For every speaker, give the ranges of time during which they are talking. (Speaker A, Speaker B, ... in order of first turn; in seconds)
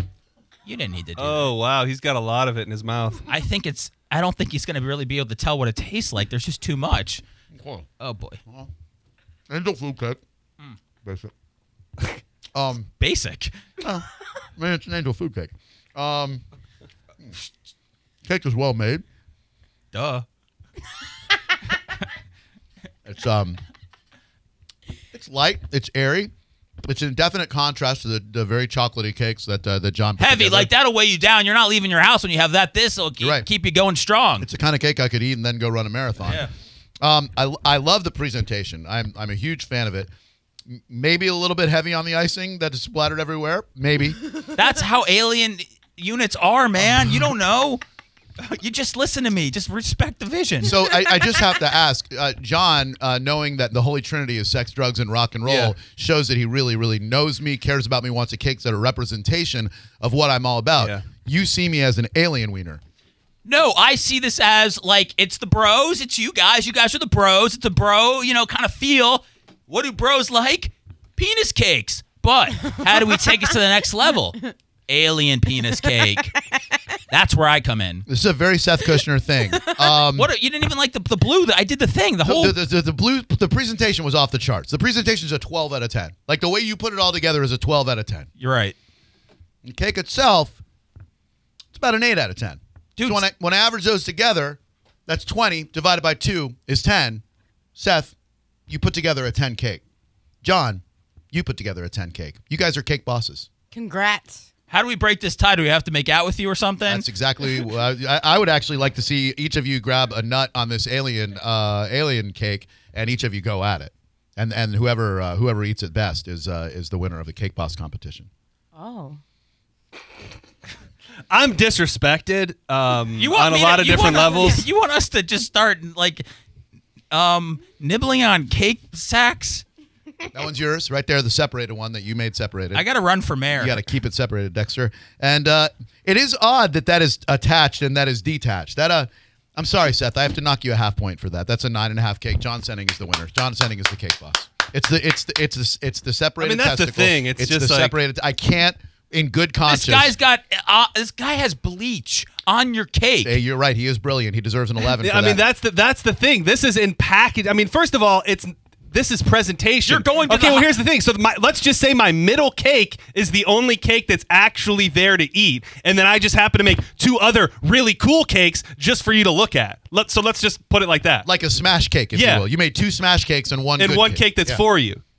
Speaker A: 0.7-1.5, 3.3-7.2, 8.0-8.4, 13.0-13.6, 19.9-20.2, 30.2-34.5, 36.2-36.5, 44.5-47.8, 48.4-50.9, 63.4-76.4, 77.1-78.0, 80.1-82.6, 88.4-88.8, 93.0-93.2, 104.7-107.0, 123.2-126.2, 127.1-129.6, 132.7-133.8, 149.6-153.4, 159.8-160.7
Speaker B: 1.2-3.2, 55.5-55.7, 60.8-61.0, 121.3-124.7, 146.4-147.9, 155.0-171.3, 172.1-172.5, 173.8-175.0
Speaker C: 7.5-7.9, 9.5-10.2, 11.0-11.3, 12.5-12.9, 13.8-16.4, 18.2-19.0, 23.0-23.6, 25.1-26.3, 26.8-30.7, 33.2-33.5, 34.4-36.5, 37.0-40.1, 40.7-44.2, 50.6-62.8, 78.1-80.3, 82.2-88.3, 89.6-90.6, 91.7-97.2, 97.7-98.1, 98.7-99.8, 100.4-103.5, 106.9-118.3, 130.3-132.8, 133.6-150.1, 153.2-155.5, 171.2-174.6
Speaker D: 103.7-104.4, 118.7-119.2, 123.9-124.6